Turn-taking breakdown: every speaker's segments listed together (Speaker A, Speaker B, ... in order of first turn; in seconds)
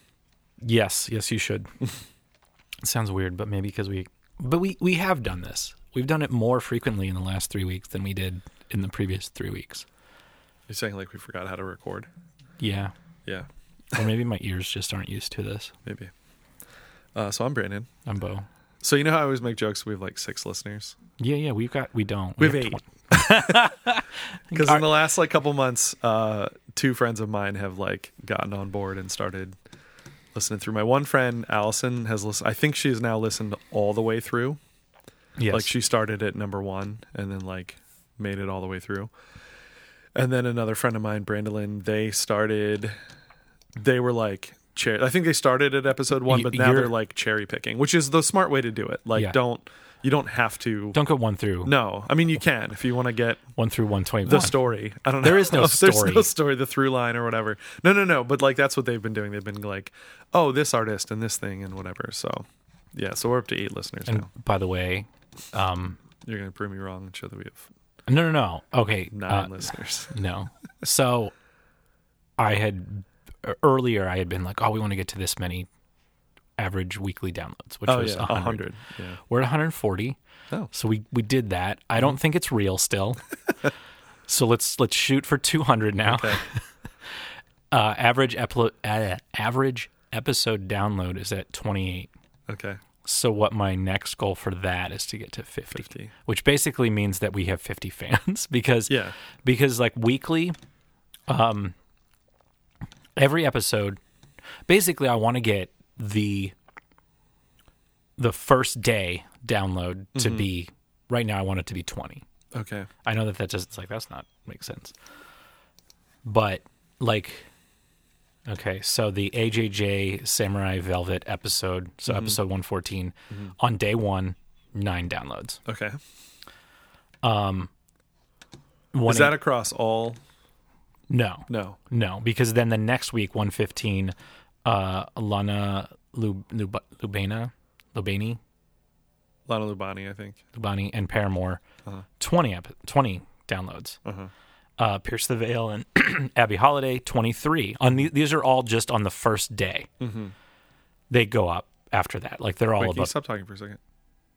Speaker A: 0.6-1.7, 2.8-9.8, 12.6-12.9, 13.9-15.7, 18.1-18.5, 21.2-25.0, 35.4-35.7, 46.3-46.9, 50.9-51.7, 53.5-54.6, 55.2-56.3, 64.0-66.0, 68.1-71.3, 72.4-75.7, 76.6-78.7, 79.3-80.2, 80.7-83.2, 84.2-86.6, 87.7-92.1, 93.0-100.6, 101.3-101.7, 103.2-104.0, 104.7-106.5, 108.2-112.2, 113.0-114.9, 116.2-117.5, 118.5-125.6, 127.2-127.7, 128.9-129.3, 131.1-138.4, 140.5-141.6, 142.2-144.0, 144.8-149.9, 151.1-153.1
Speaker B: 10.7-12.1, 13.2-14.0, 15.8-16.1, 17.1-17.9, 18.8-21.0, 22.4-23.7, 24.5-29.5, 30.3-34.6, 35.5-39.1, 40.1-43.0, 43.8-51.0, 51.6-53.4, 54.2-64.3, 66.2-67.7, 69.1-70.1, 77.8-79.2, 86.0-86.4, 92.5-92.8, 95.7-96.1, 98.9-99.1, 110.1-110.5, 112.5-112.9, 122.1-122.4, 125.7-126.0, 129.0-130.2, 131.5-131.8, 139.5-140.4, 144.0-144.3, 150.0-150.3, 152.8-153.8